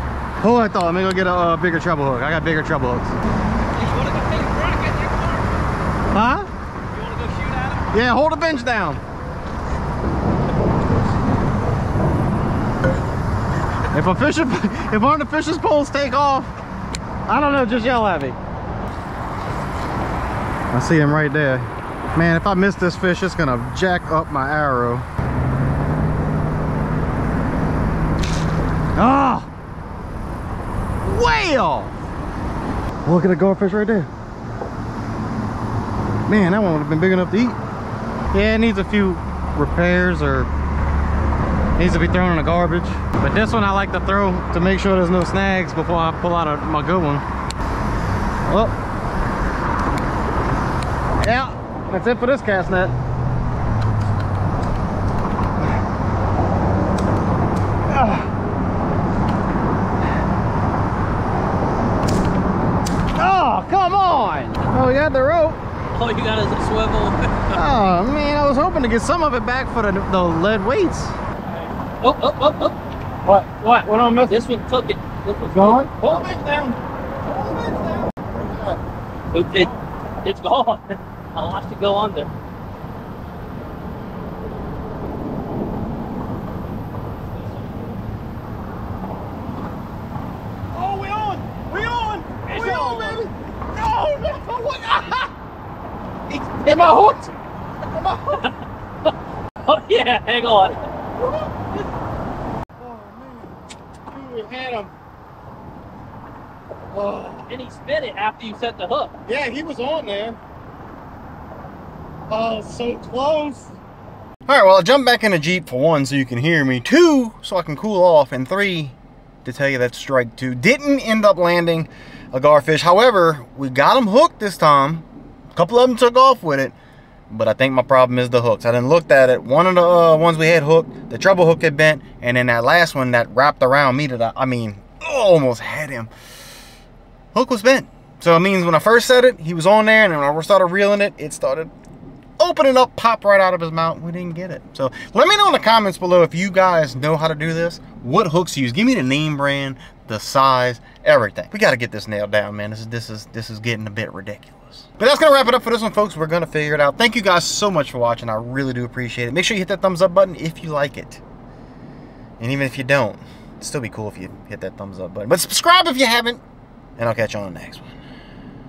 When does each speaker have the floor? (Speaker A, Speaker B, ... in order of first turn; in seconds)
Speaker A: 0.4-3.2, 6.1-6.5, 7.9-9.0, 13.9-16.5, 17.3-18.4, 20.7-25.1, 29.0-29.5, 31.1-31.9, 33.0-34.1, 36.3-37.6, 38.3-40.5, 41.8-47.2, 48.5-48.8, 51.2-53.0, 57.9-58.3, 63.1-65.6, 67.5-71.2, 73.3-74.4, 75.5-76.8, 77.3-78.8, 90.7-95.3, 96.3-97.4, 97.9-98.5, 101.2-101.7, 102.8-104.9, 106.9-107.5, 109.3-110.4, 112.3-113.7, 114.5-126.8, 127.3-136.1, 137.3-141.7, 142.4-161.2, 162.4-166.4, 167.0-167.9
Speaker B: 3.7-5.6, 6.9-7.9, 65.9-67.6, 71.6-72.8, 74.3-75.9, 79.3-82.3, 92.5-93.2, 99.7-100.8, 107.5-109.1